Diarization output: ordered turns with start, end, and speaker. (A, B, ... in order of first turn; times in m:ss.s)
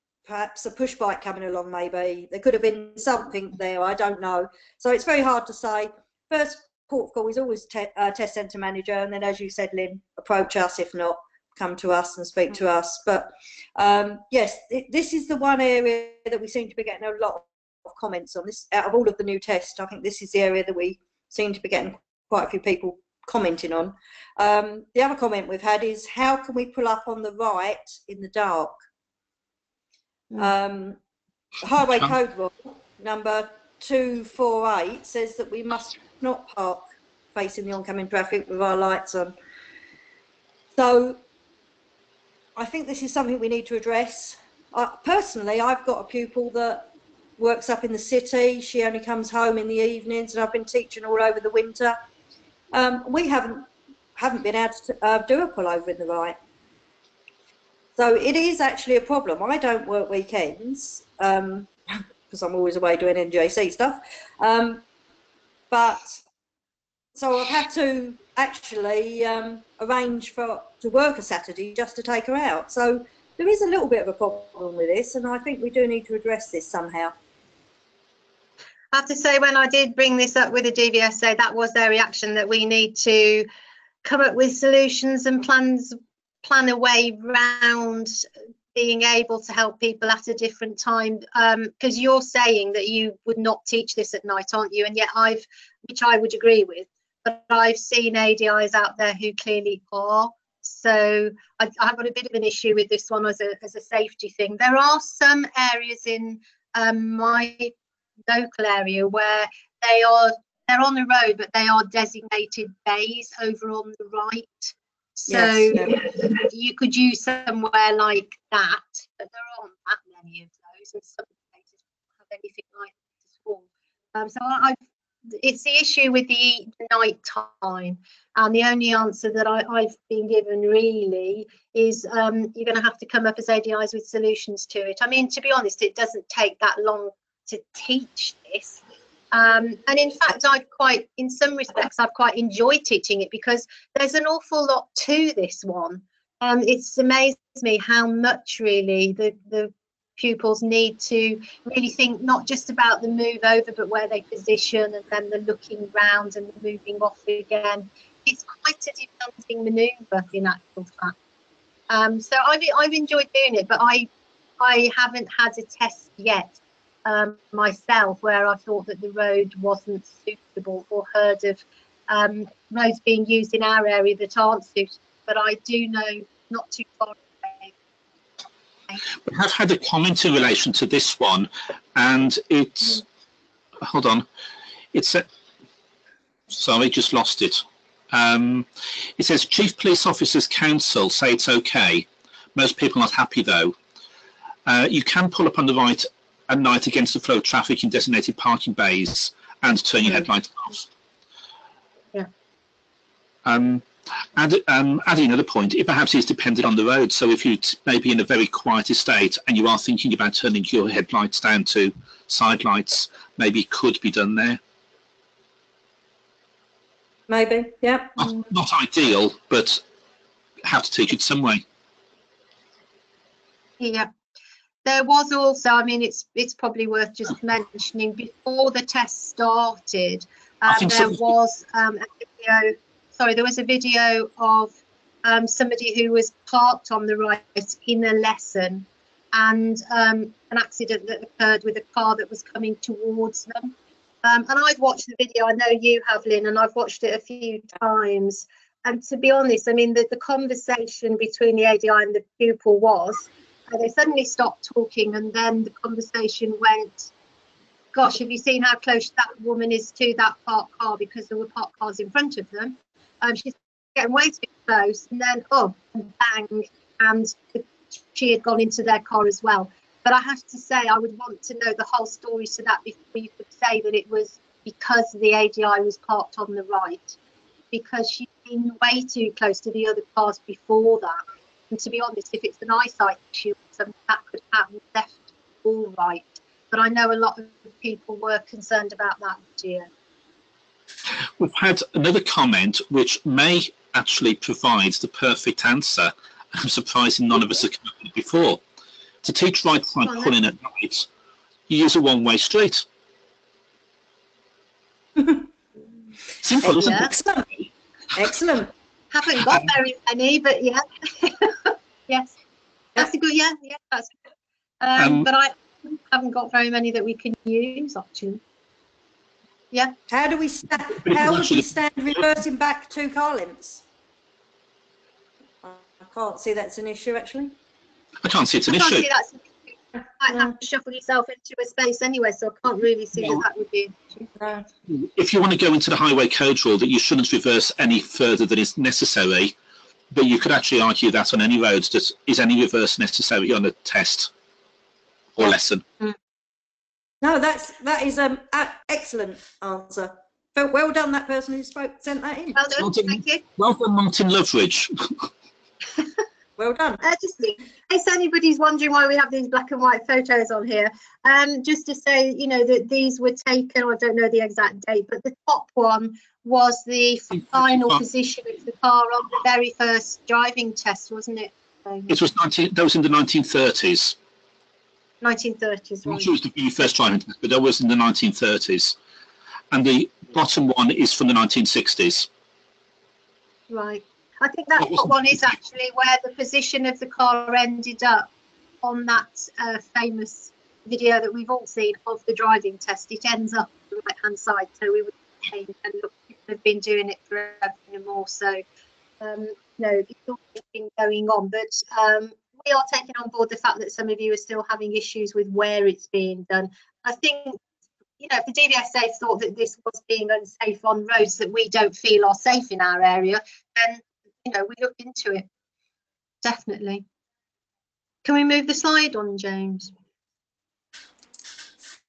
0:00.3-0:28.8 A
0:30.4-0:31.0 A
0:31.6-0:36.8 A
0:37.4-0:39.3 A
0:40.8-0:41.2 A
0:42.6-0:46.8 A
0:47.4-0:52.0 A
0:52.7-0:56.4 A
0:58.0-1:04.8 A
1:05.7-1:06.2 A
1:07.2-1:17.1 A
1:18.9-1:23.5 B
1:24.0-1:28.2 B
1:28.7-1:47.7 B
1:48.3-2:01.6 B
1:55.3-1:56.0 A
2:02.2-2:04.8 B
2:05.3-2:18.8 B
2:19.3-2:41.2 B
2:41.9-2:44.1 B
2:44.6-2:57.7 B
2:59.2-3:03.0 C
3:03.8-3:04.2 C
3:04.9-3:05.3 C
3:06.5-3:13.8 C
3:14.7-3:20.8 C
3:23.4-3:34.6 C
3:37.3-3:38.2 A
3:38.2-3:39.8 C
3:40.6-3:41.6 C
3:43.8-3:44.1 B
3:44.8-4:17.1 B
3:50.7-3:51.2 C
4:17.9-4:37.2 B
4:37.7-4:49.9 B
4:51.2-4:58.6 C
4:59.2-5:01.1 C
5:01.7-5:02.8 C
5:06.4-5:07.1 C
5:06.6-5:08.7 A
5:09.1-5:12.4 B
5:13.0-5:14.2 B
5:14.8-5:18.4 B
5:15.0-5:15.3 C
5:20.1-5:23.8 A
5:21.1-5:21.6 C
5:25.6-5:27.5 A
5:28.2-5:29.1 C
5:28.7-5:34.3 B
5:34.4-5:34.6 A
5:34.9-5:39.5 C
5:40.1-5:44.3 C
5:45.4-5:45.8 C
5:47.2-5:52.7 A
5:52.6-5:53.4 B
5:52.8-5:55.3 C
5:56.6-5:57.0 A
5:57.0-6:12.2 B
6:07.5-6:08.0 C
6:12.1-6:14.2 C
6:15.2-6:16.3 B
6:16.1-6:19.0 C
6:19.7-6:22.3 C
6:23.7-6:28.3 B
6:24.8-6:25.2 C
6:28.8-6:38.6 B
6:39.2-6:47.6 B
6:48.2-6:55.4 B
6:56.4-6:57.0 B
6:58.2-6:59.9 B